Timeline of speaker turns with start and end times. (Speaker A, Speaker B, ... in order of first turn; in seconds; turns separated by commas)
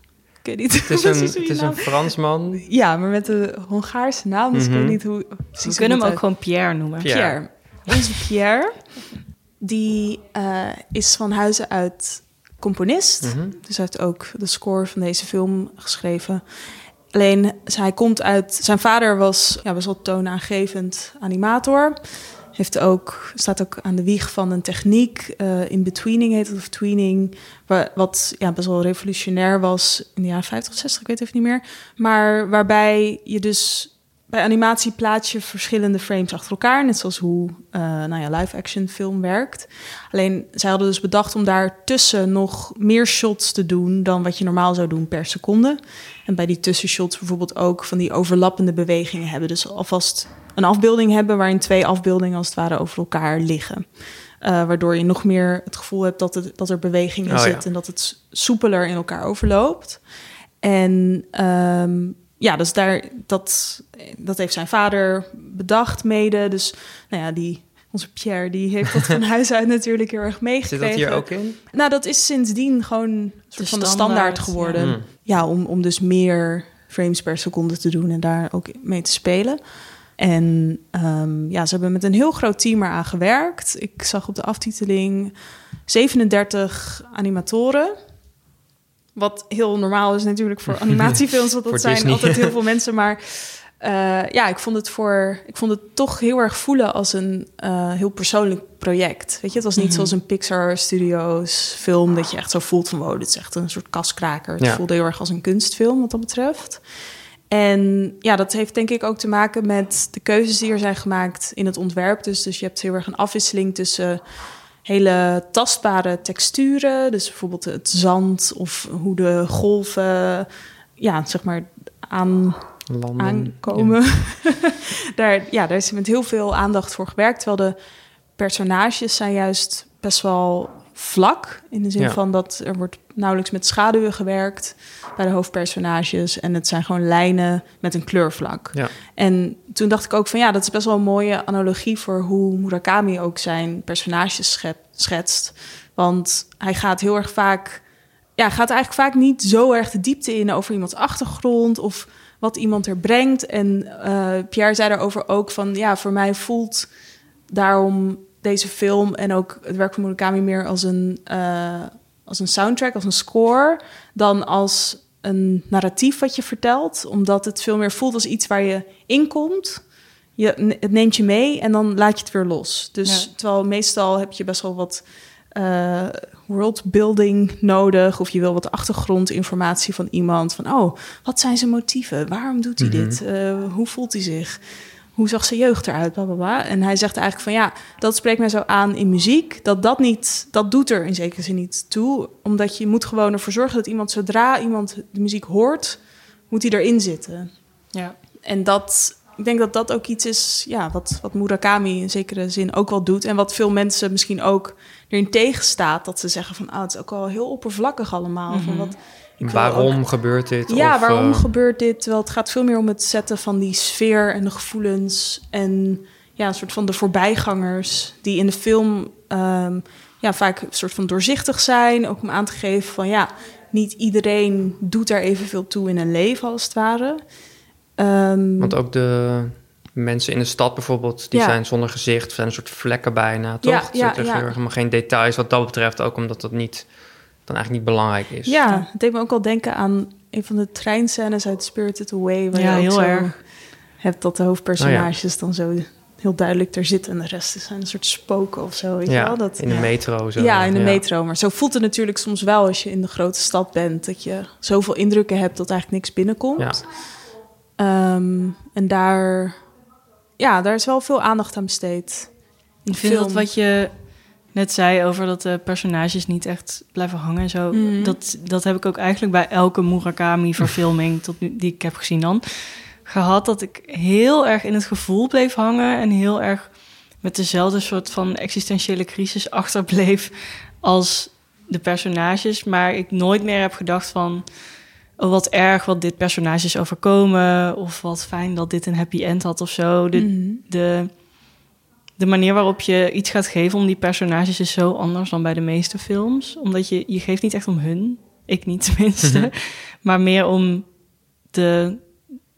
Speaker A: 0.4-60.0, Speaker B: 0.8-2.6, Speaker B: 4.5-5.0, Speaker C: 5.6-7.1, Speaker B: 7.0-7.4, Speaker B: 13.2-13.6, Speaker B: 57.2-57.6, Speaker A: 60.6-88.0, Speaker B: 70.6-71.6, Speaker C: 73.6-74.9, Speaker B: 74.8-75.0, Speaker A: 89.1-106.8, Speaker B: 90.9-92.5, Speaker C: 99.8-100.1, Speaker A: 107.5-127.8, Speaker B: 122.9-124.2, Speaker A: 128.3-156.9, Speaker A: 157.5-197.6, Speaker C: 173.0-173.3, Speaker B: 182.8-183.2, Speaker A: 198.4-227.3, Speaker C: 208.5-209.0, Speaker B: 209.4-211.5, Speaker A: 228.0-228.8, Speaker B: 228.6-238.6, Speaker A: 233.6-234.5, Speaker A: 238.4-256.9, Speaker C: 242.5-243.4, Speaker B: 244.8-245.1, Speaker B: 249.1-251.0, Speaker B: 256.6-256.8, Speaker A: 257.8-259.6, Speaker A: 260.4-263.5, Speaker C: 262.9-284.4, Speaker A: 267.7-268.2, Speaker C: 285.2-291.1, Speaker A: 290.1-290.6, Speaker C: 292.2-300.9, Speaker B: 299.2-299.5, Speaker C: 301.5-302.1